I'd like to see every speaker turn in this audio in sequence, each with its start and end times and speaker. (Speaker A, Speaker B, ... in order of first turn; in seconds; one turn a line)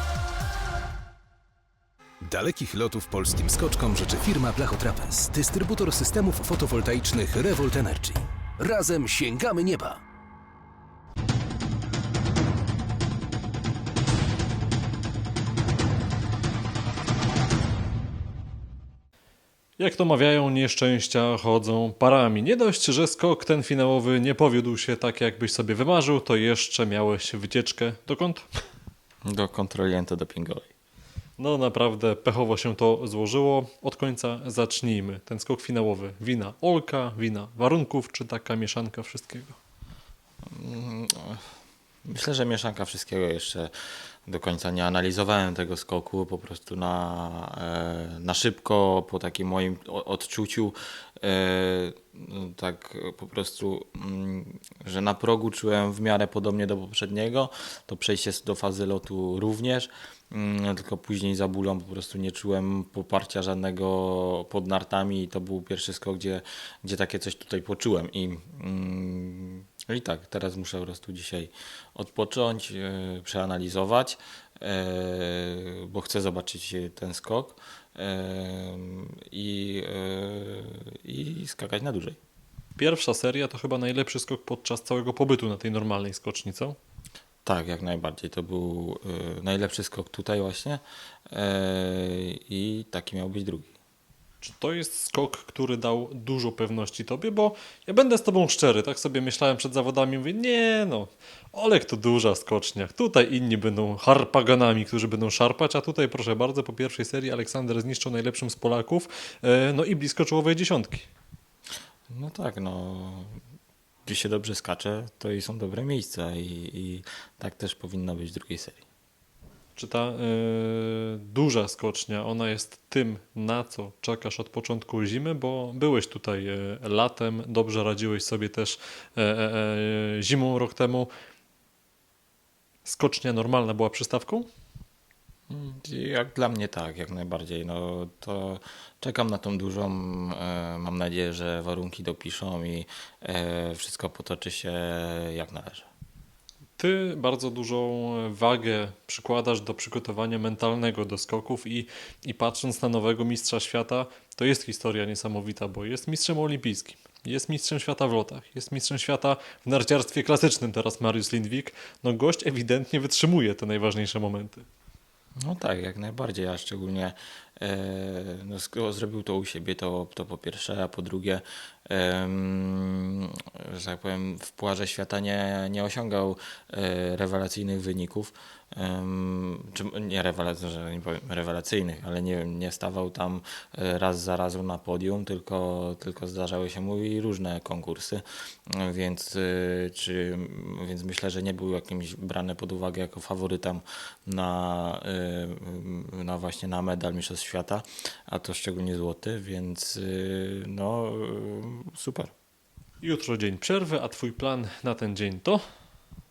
Speaker A: 2.2-10.0
Speaker B: 19.8-28.5
Speaker C: 29.3-30.7
Speaker B: 31.4-39.6
Speaker C: 40.5-41.4
Speaker C: 42.0-43.7
Speaker C: 44.3-82.2
Speaker B: 82.8-86.8
Speaker C: 87.4-93.7
Speaker B: 94.4-111.1
Speaker C: 112.1-113.4
Speaker C: 114.1-118.8
Speaker B: 119.8-131.1
Speaker B: 132.8-134.5
Speaker C: 135.5-145.8
Speaker B: 146.8-164.7
Speaker C: 165.4-202.3
Speaker B: 203.0-205.6